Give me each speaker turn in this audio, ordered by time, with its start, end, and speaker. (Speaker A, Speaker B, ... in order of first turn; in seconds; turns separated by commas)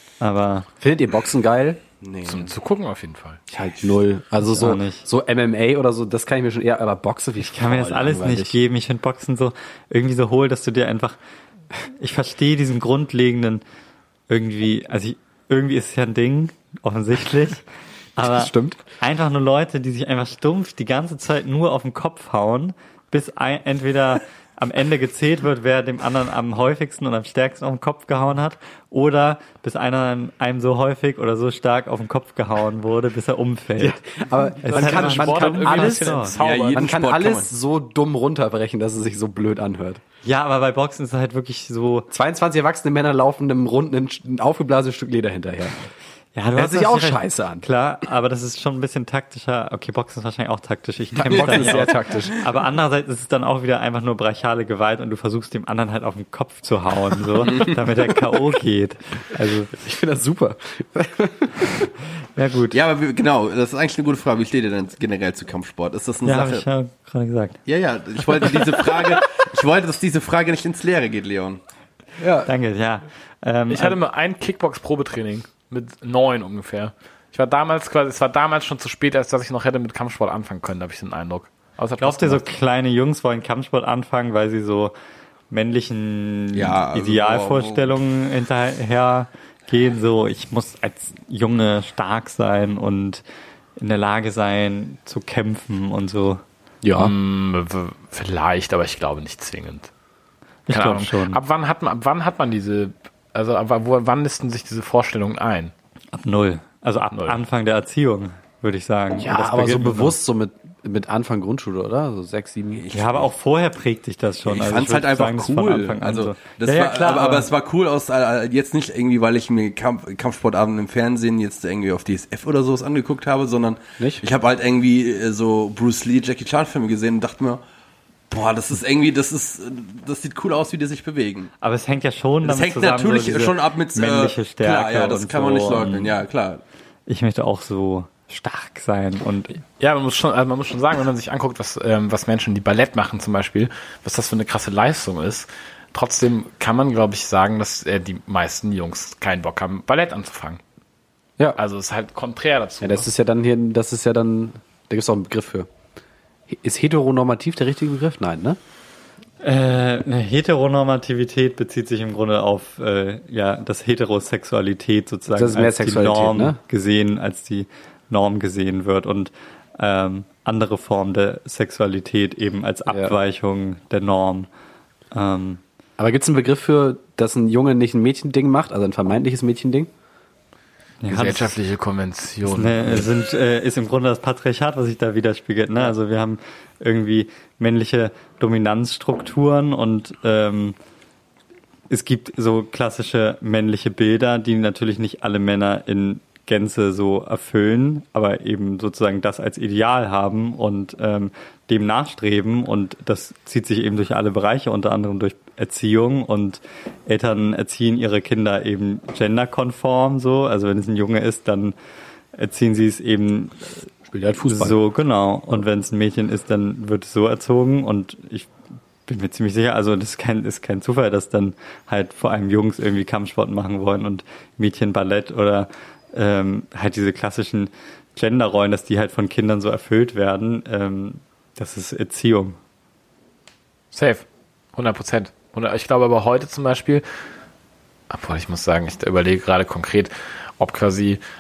Speaker A: 0.2-0.7, Speaker B: 0.8-1.8, Speaker C: 2.0-2.5, Speaker D: 2.2-3.4, Speaker B: 3.5-8.6, Speaker A: 4.5-5.0, Speaker A: 7.4-11.2, Speaker A: 12.0-13.6, Speaker A: 14.3-17.6, Speaker A: 18.2-34.1, Speaker B: 18.2-18.8, Speaker B: 33.8-40.0, Speaker A: 34.6-36.4, Speaker D: 34.7-36.8, Speaker C: 36.4-37.5, Speaker A: 40.2-42.1, Speaker B: 42.1-45.8, Speaker A: 46.4-59.8, Speaker B: 46.6-47.7, Speaker B: 51.2-52.4, Speaker C: 51.2-52.3, Speaker B: 59.8-61.9, Speaker A: 62.4-62.8, Speaker C: 62.7-66.7, Speaker A: 66.2-67.6, Speaker C: 67.7-71.6, Speaker B: 72.2-72.5, Speaker A: 72.5-74.0, Speaker D: 73.7-82.5, Speaker A: 82.0-84.9, Speaker A: 85.5-93.2, Speaker C: 86.5-88.0, Speaker A: 93.8-96.4, Speaker B: 96.8-97.1, Speaker D: 97.0-99.9, Speaker A: 100.7-101.4, Speaker D: 100.7-105.7, Speaker A: 106.1-110.2, Speaker B: 109.2-112.9, Speaker C: 112.7-113.3, Speaker A: 112.9-117.5, Speaker C: 114.5-127.6, Speaker C: 128.3-131.5, Speaker A: 131.6-136.2, Speaker C: 132.4-136.6, Speaker A: 137.1-139.6, Speaker D: 139.8-150.6, Speaker D: 151.6-153.1, Speaker B: 152.8-155.7, Speaker B: 156.5-158.6, Speaker A: 159.4-174.5, Speaker B: 165.3-166.6, Speaker B: 172.9-173.2, Speaker A: 175.1-175.6, Speaker B: 176.0-179.9, Speaker A: 181.0-181.6, Speaker D: 181.1-183.1, Speaker A: 182.4-190.8, Speaker A: 191.9-211.8, Speaker A: 212.4-213.8, Speaker B: 214.1-214.8, Speaker A: 214.4-218.5, Speaker A: 219.1-232.6, Speaker D: 233.9-237.1, Speaker D: 238.1-241.2